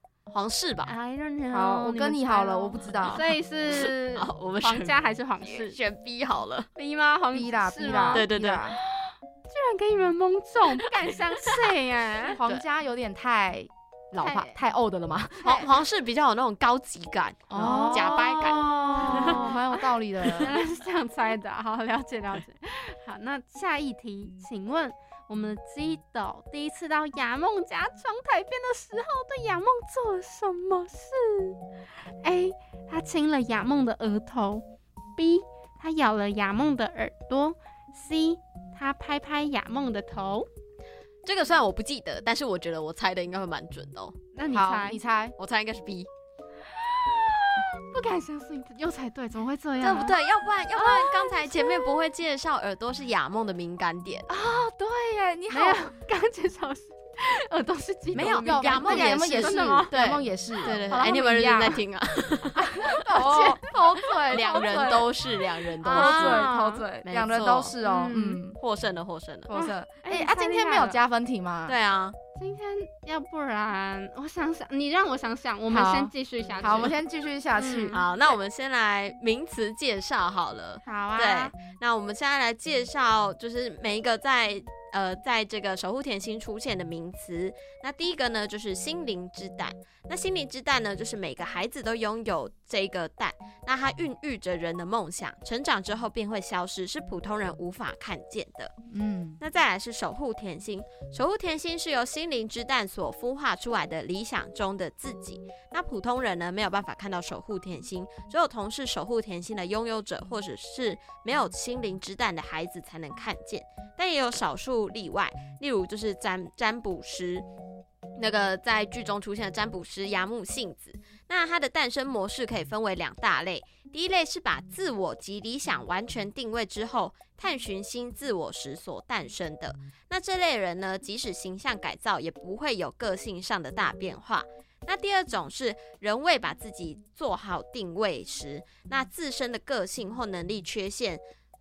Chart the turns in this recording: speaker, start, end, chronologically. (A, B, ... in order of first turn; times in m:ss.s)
0:00.3-0:00.9 A
0:00.8-0:05.8 B
0:01.5-0:03.3 C
0:03.7-0:06.7 A
0:06.8-0:12.4 B
0:07.3-0:08.8 C
0:08.1-0:08.6 A
0:12.3-0:15.7 C
0:14.2-0:14.6 B
0:15.4-0:19.4 A
0:17.5-0:20.6 C
0:17.6-0:31.6 B
0:32.2-0:34.6 B
0:35.2-0:40.5 B
0:41.2-0:44.2 A
0:44.3-0:45.0 B
0:44.5-0:45.4 C
0:45.4-0:46.1 A
0:46.7-0:50.2 B
0:49.8-0:54.3 A
0:50.8-0:51.6 B
0:54.3-0:55.9 C
0:55.5-0:59.9 B
0:58.1-1:03.0 A
0:58.2-1:01.8 C
1:02.6-1:05.1 C
1:02.9-1:03.6 B
1:04.3-1:06.5 A
1:05.8-1:08.6 C
1:05.8-1:06.8 B
1:07.0-1:07.7 A
1:07.8-1:08.4 B
1:08.6-1:09.5 A
1:09.5-1:11.7 C
1:09.5-1:11.0 B
1:11.7-1:12.2 A
1:12.4-1:17.0 B
1:15.7-1:18.0 C
1:17.5-1:18.1 B
1:17.9-1:38.7 A
1:20.8-1:21.5 B
1:38.9-1:39.4 C
1:39.4-1:57.4 A
1:58.2-2:21.2 A